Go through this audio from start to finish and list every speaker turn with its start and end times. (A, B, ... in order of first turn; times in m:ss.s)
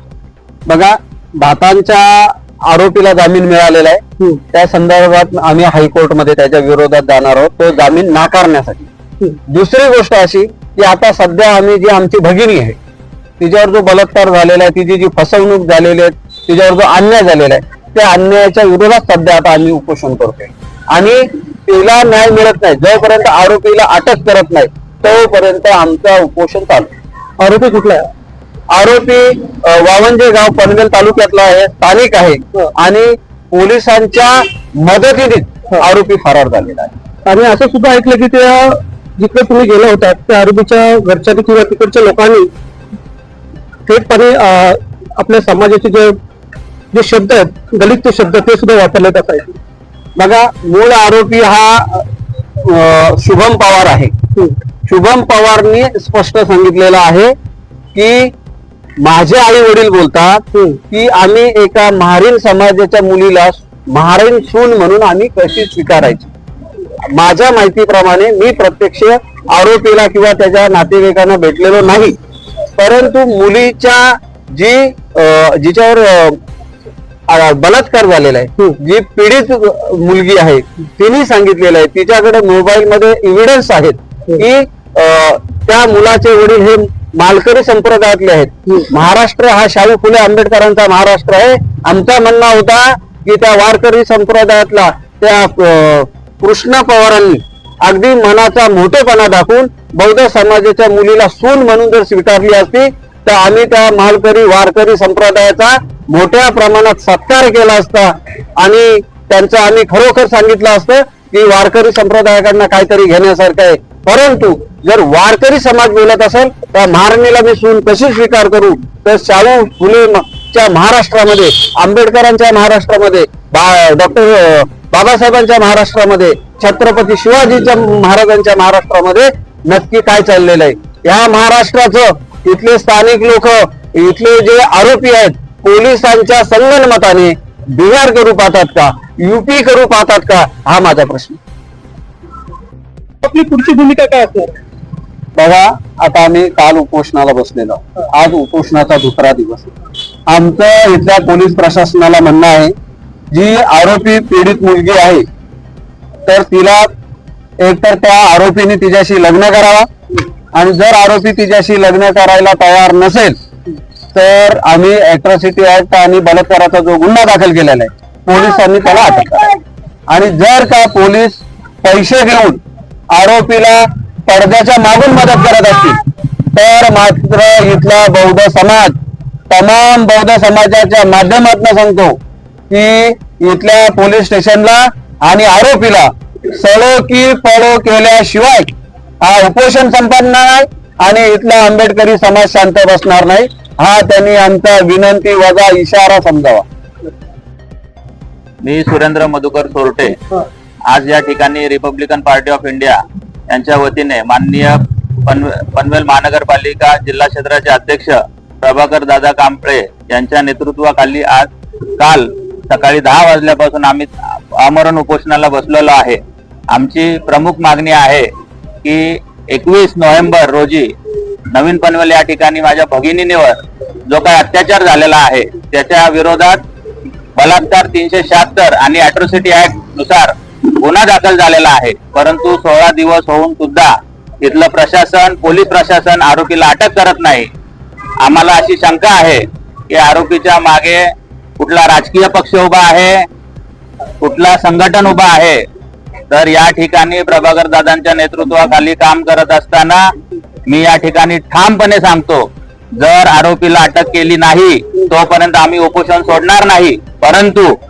0:00.7-0:04.0 A
0:04.5-0:08.9 A
0:09.5-0:12.8 A
0:13.4-0:26.9 A
0:27.4-0:28.1 B
0:28.7-0:36.9 A
0:37.3-0:42.5 B
0:43.9-0:46.2 B
0:46.9-0:49.6 B
0:50.2-0:52.1 A
0:52.6-0:54.1 A
0:54.9-0:57.3 A
0:58.0-0:58.3 A
0:59.0-1:06.3 A
1:00.5-1:00.8 B
1:07.1-1:12.2 A
1:12.8-1:16.4 A
1:17.3-2:21.4 A
2:23.2-2:24.6 B
2:25.4-2:29.7 A
2:30.3-2:32.7 A
2:33.3-2:35.2 A
2:36.3-2:36.9 A
2:37.6-2:39.9 A
2:40.6-2:43.4 A
2:44.1-2:49.6 A
2:50.1-2:52.6 A
2:53.1-2:59.0 A
2:59.5-3:02.2 A
3:02.7-3:08.7 A
3:09.2-3:16.7 A
3:18.6-3:20.2 C
3:20.9-3:36.2 C
3:36.7-3:38.3 C
3:38.8-3:40.9 C
3:41.5-3:46.6 C
3:47.4-3:57.5 C
3:58.2-4:03.3 C
4:04.2-4:05.6 C
4:06.3-4:10.1 C
4:10.7-4:17.7 C